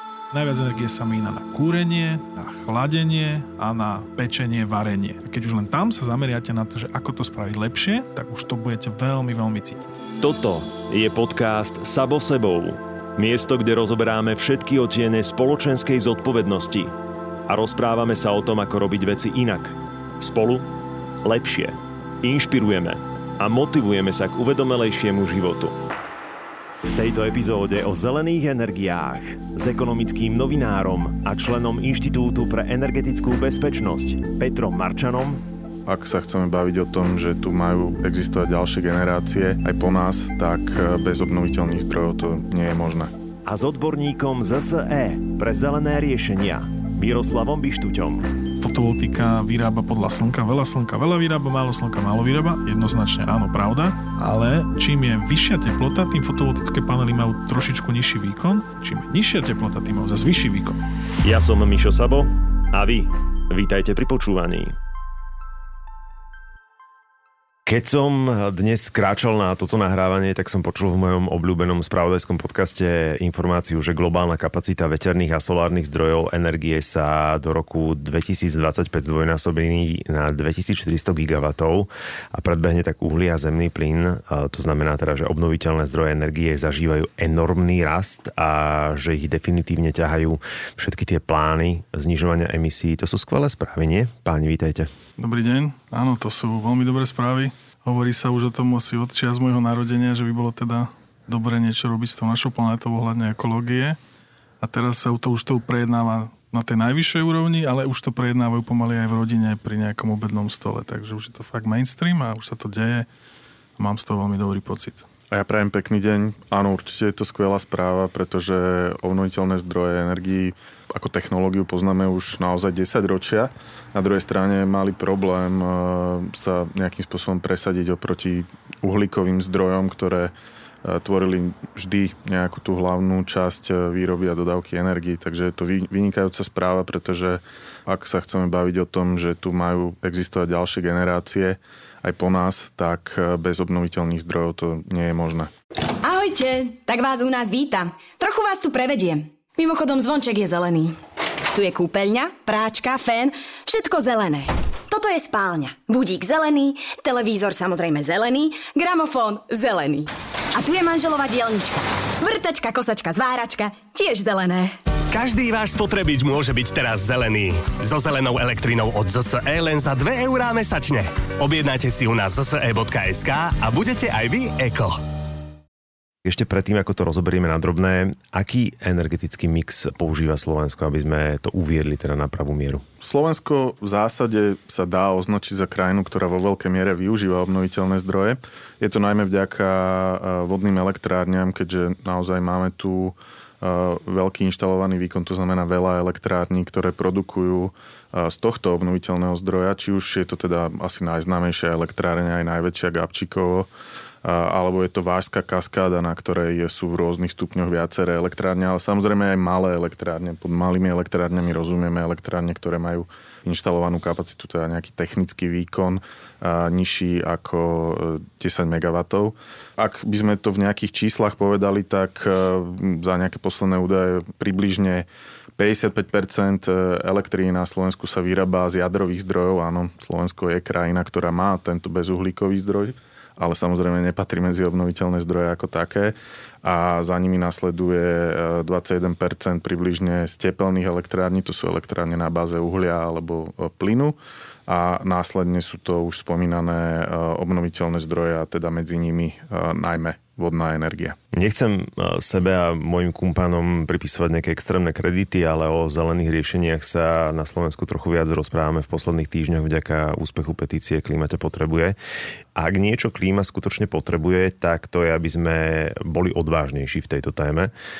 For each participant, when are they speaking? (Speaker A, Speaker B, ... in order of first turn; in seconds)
Speaker A: 0.3-9.9, 48.6-60.8, 95.2-104.0, 104.6-113.1, 113.8-115.0
Speaker B: 10.2-16.9, 17.5-20.7, 21.2-25.8, 26.9-35.4, 43.5-48.3, 61.2-64.7, 67.7-94.9, 176.2-182.8, 251.3-261.9, 262.5-267.7
Speaker C: 35.9-43.1, 115.3-130.3, 130.8-145.5, 183.0-203.7, 204.2-251.2
Speaker D: 146.0-151.0, 151.5-164.8
Speaker E: 165.1-175.0